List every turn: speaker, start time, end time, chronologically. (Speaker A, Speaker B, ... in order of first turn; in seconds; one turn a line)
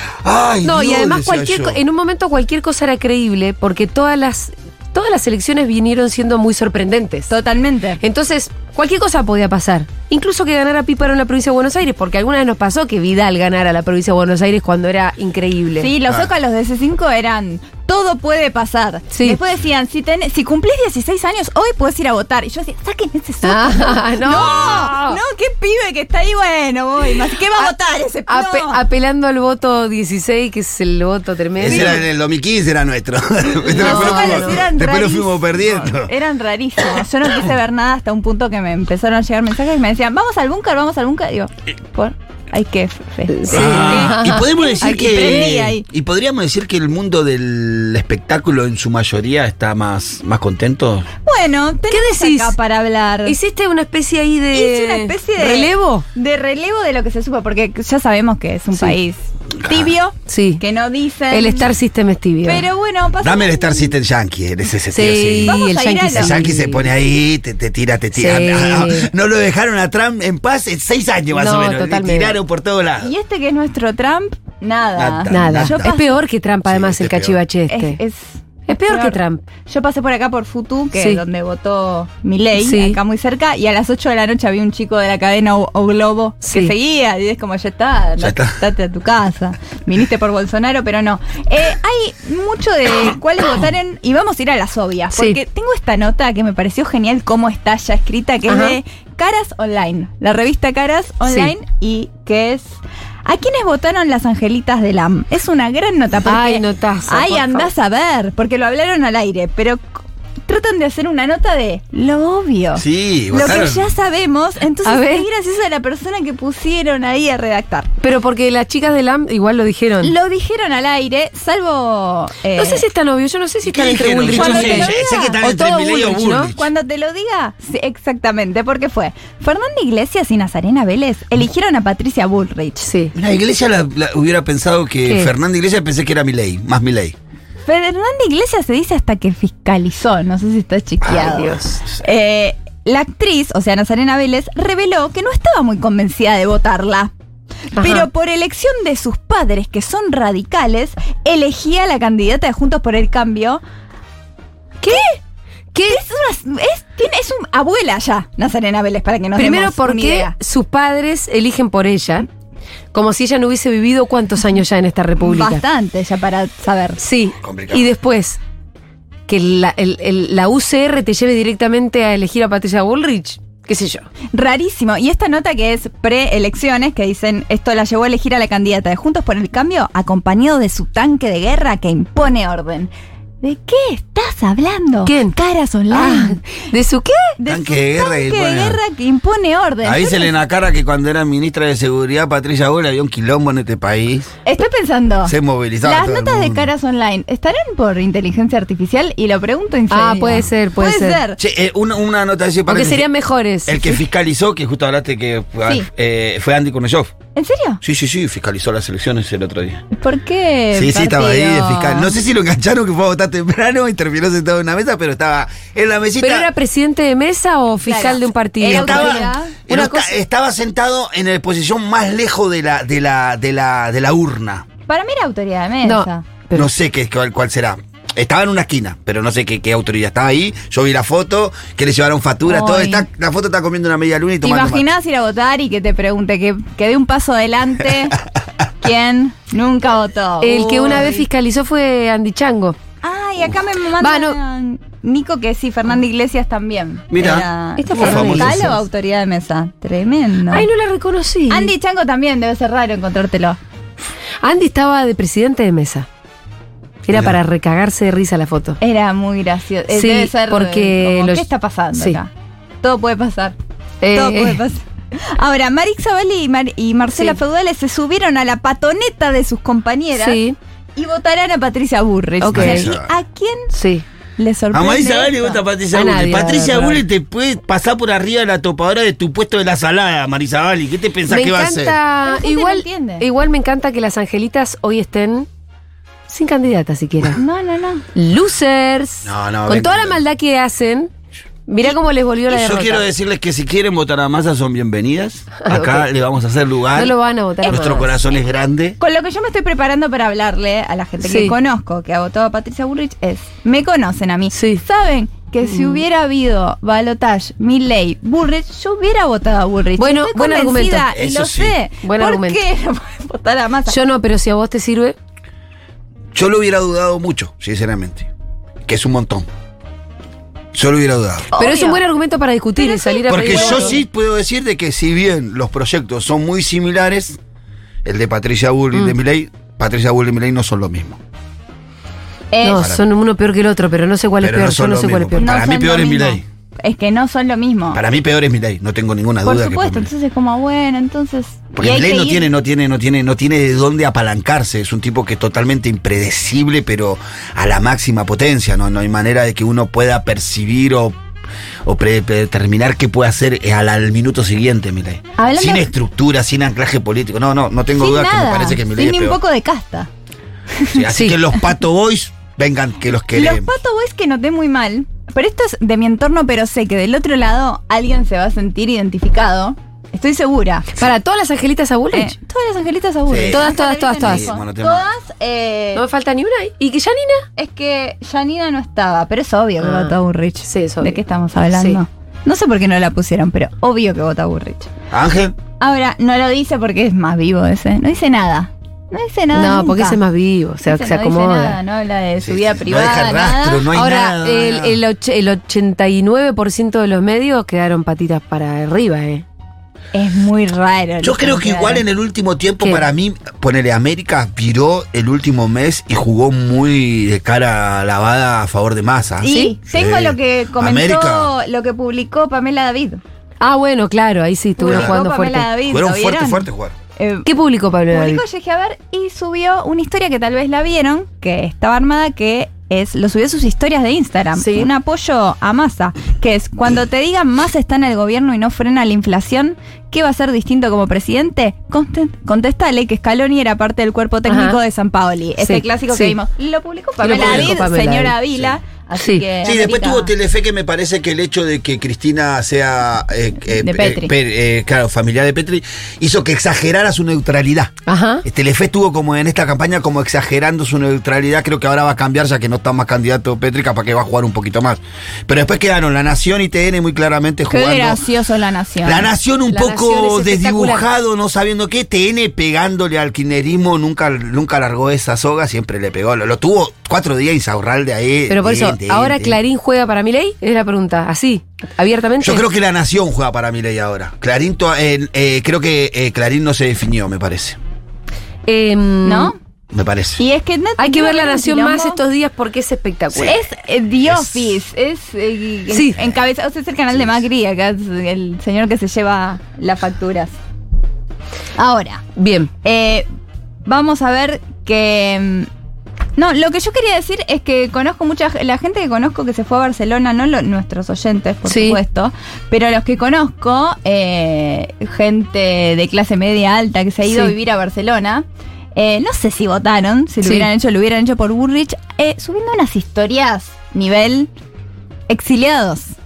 Speaker A: 0.2-1.8
Speaker B: 0.6-7.3
Speaker C: 7.3-8.0
Speaker B: 8.0-15.9
Speaker C: 15.8-28.8
Speaker B: 19.1-19.4
Speaker B: 23.4-25.2
Speaker A: 24.4-24.8
Speaker B: 28.3-32.0
Speaker A: 31.6-36.1
Speaker C: 31.7-32.0
Speaker B: 33.7-34.6
Speaker C: 33.7-45.8
Speaker B: 43.3-44.5
Speaker A: 43.5-51.1
Speaker C: 51.2-53.4
Speaker B: 51.9-52.5
Speaker B: 53.2-56.0
Speaker C: 54.5-61.7
Speaker A: 59.5-59.9
Speaker B: 60.3-60.6
Speaker B: 61.3-62.6
Speaker C: 62.4-63.9
Speaker A: 63.2-65.6
Speaker B: 64.9-66.9
Speaker C: 65.4-66.4
Speaker A: 66.1-73.1
Speaker B: 68.1-69.1
Speaker B: 71.3-72.4
Speaker C: 73.0-76.0
Speaker A: 75.0-75.9
Speaker B: 75.3-78.0
Speaker A: 76.6-77.4
Speaker C: 77.7-102.7
Speaker B: 78.7-79.4
Speaker B: 81.0-81.2
Speaker B: 82.5-83.0
Speaker B: 86.4-86.7
Speaker A: 88.2-88.6
Speaker B: 98.5-98.8
Speaker B: 101.3-101.5
Speaker C: 103.2-117.9
Speaker B: 106.2-107.7
Speaker A: 112.8-113.9
Speaker B: 114.8-115.3
Speaker B: 118.0-120.1
Speaker C: 120.0-122.8
Speaker B: 122.5-126.5
Speaker A: 123.6-126.7
Speaker C: 124.3-125.4
Speaker C: 126.5-132.9
Speaker B: 132.8-133.1
Speaker A: 133.1-137.2
Speaker C: 137.7-147.1
Speaker B: 141.1-141.8
Speaker C: 147.7-153.6
Speaker B: 147.8-148.1
Speaker B: 154.8-155.1
Speaker C: 154.8-155.2
Speaker B: 155.7-156.0
Speaker C: 155.8-160.3
Speaker B: 159.3-162.3
Speaker B: 162.9-165.6
Speaker C: 165.2-167.0
Speaker B: 167.0-168.4
Speaker A: 167.4-167.9
Speaker B: 169.3-174.1
Speaker C: 174.3-182.9
Speaker C: 183.4-186.4
Speaker B: 185.1-185.3
Speaker B: 185.9-187.3
Speaker C: 187.4-190.3
Speaker A: 187.4-188.8
Speaker A: 189.8-194.3
Speaker C: 194.4-201.4
Speaker A: 195.2-196.7
Speaker B: 199.9-201.2
Speaker A: 201.4-203.1
Speaker B: 202.7-204.0
Speaker A: 203.7-207.1
Speaker C: 207.3-207.8
Speaker A: 207.8-209.8
Speaker C: 209.9-212.1
Speaker A: 210.7-216.5
Speaker B: 216.2-220.2
Speaker C: 217.8-219.6
Speaker A: 218.7-224.6
Speaker C: 224.9-226.2
Speaker B: 225.8-226.7
Speaker A: 226.5-234.9
Speaker C: 232.4-233.1
Speaker C: 234.4-238.2
Speaker C: 238.8-241.2
Speaker B: 240.4-242.8
Speaker C: 243.0-250.7
Speaker B: 244.0-244.4
Speaker A: 247.1-248.8
Speaker B: 247.8-248.7
Speaker B: 250.5-251.7
Speaker C: 251.5-253.6
Speaker B: 254.4-256.1
Speaker B: 257.1-258.8
Speaker A: 257.1-257.4
Speaker C: 258.8-262.3
Speaker B: 259.9-262.2
Speaker C: 262.8-263.6
Speaker B: 264.0-264.6
Speaker C: 264.1-270.4
Speaker B: 270.1-270.6
Speaker C: 270.9-273.7
Speaker B: 272.4-272.9
Speaker A: 272.5-273.1
Speaker B: 273.7-274.0
Speaker C: 274.4-275.6
Speaker A: 274.7-282.0
Speaker B: 275.9-277.0
Speaker B: 281.3-285.5
Speaker C: 282.2-283.2
Speaker B: 286.3-287.4
Speaker C: 287.3-288.0
Speaker B: 288.1-291.1
Speaker A: 289.2-290.2
Speaker B: 291.7-293.1
Speaker A: 292.5-299.0
Speaker B: 295.6-296.1
Speaker B: 296.9-298.1
Speaker C: 299.0-314.0
Speaker B: 301.2-301.5
Speaker B: 304.5-304.8
Speaker B: 305.6-306.0
Speaker B: 310.0-311.1
Speaker A: 311.1-311.8
Speaker B: 312.0-312.6
Speaker B: 313.9-315.1
Speaker A: 316.3-318.3
Speaker A: 318.9-319.5
Speaker A: 320.7-321.5
Speaker C: 321.5-322.0
Speaker B: 321.6-324.0
Speaker C: 322.8-324.0
Speaker A: 323.3-327.4
Speaker A: 328.0-331.2
Speaker C: 332.5-332.9
Speaker B: 332.6-335.5
Speaker A: 332.7-333.0
Speaker A: 334.4-336.4
Speaker C: 335.4-338.0
Speaker A: 337.9-340.1
Speaker C: 339.4-342.5
Speaker A: 341.8-351.2
Speaker A: 351.8-359.4
Speaker C: 355.4-355.9
Speaker C: 357.9-360.1
Speaker A: 360.9-363.7
Speaker B: 361.1-361.4
Speaker C: 363.3-370.9
Speaker B: 370.9-372.3
Speaker C: 372.1-376.0
Speaker A: 373.3-375.1
Speaker B: 373.5-374.5
Speaker B: 375.9-377.4
Speaker C: 377.6-384.9
Speaker B: 379.8-380.1
Speaker B: 380.6-381.2
Speaker B: 381.7-382.0
Speaker A: 385.1-385.6
Speaker C: 385.8-390.2
Speaker B: 389.5-391.8
Speaker C: 390.8-393.9
Speaker A: 392.4-395.0
Speaker B: 393.9-399.4
Speaker C: 400.1-402.0
Speaker A: 401.2-411.5
Speaker C: 409.4-413.2
Speaker B: 409.5-409.7
Speaker B: 413.6-415.7
Speaker C: 414.8-417.5
Speaker A: 414.9-415.2
Speaker A: 415.9-416.9
Speaker B: 417.4-418.4
Speaker C: 418.1-440.3
Speaker B: 424.6-424.9
Speaker B: 434.5-434.8
Speaker B: 435.6-436.4
Speaker B: 437.2-438.4
Speaker A: 437.2-437.8
Speaker A: 439.6-458.2
Speaker C: 443.7-444.3
Speaker B: 448.1-448.4
Speaker C: 457.7-459.3
Speaker A: 459.0-469.6
Speaker B: 459.7-461.0
Speaker B: 468.5-472.6
Speaker A: 472.4-477.8
Speaker B: 478.7-479.5
Speaker C: 479.2-479.6
Speaker A: 479.9-480.4
Speaker C: 480.4-482.2
Speaker B: 481.0-483.6
Speaker A: 483.3-483.6
Speaker C: 483.4-490.5
Speaker A: 484.2-484.7
Speaker B: 485.9-486.2
Speaker C: 491.8-492.2
Speaker B: 492.4-492.7
Speaker C: 492.8-493.3
Speaker C: 493.9-495.7
Speaker C: 496.4-514.5
Speaker B: 501.6-502.0
Speaker B: 507.2-507.5
Speaker B: 510.4-510.7
Speaker C: 515.3-516.1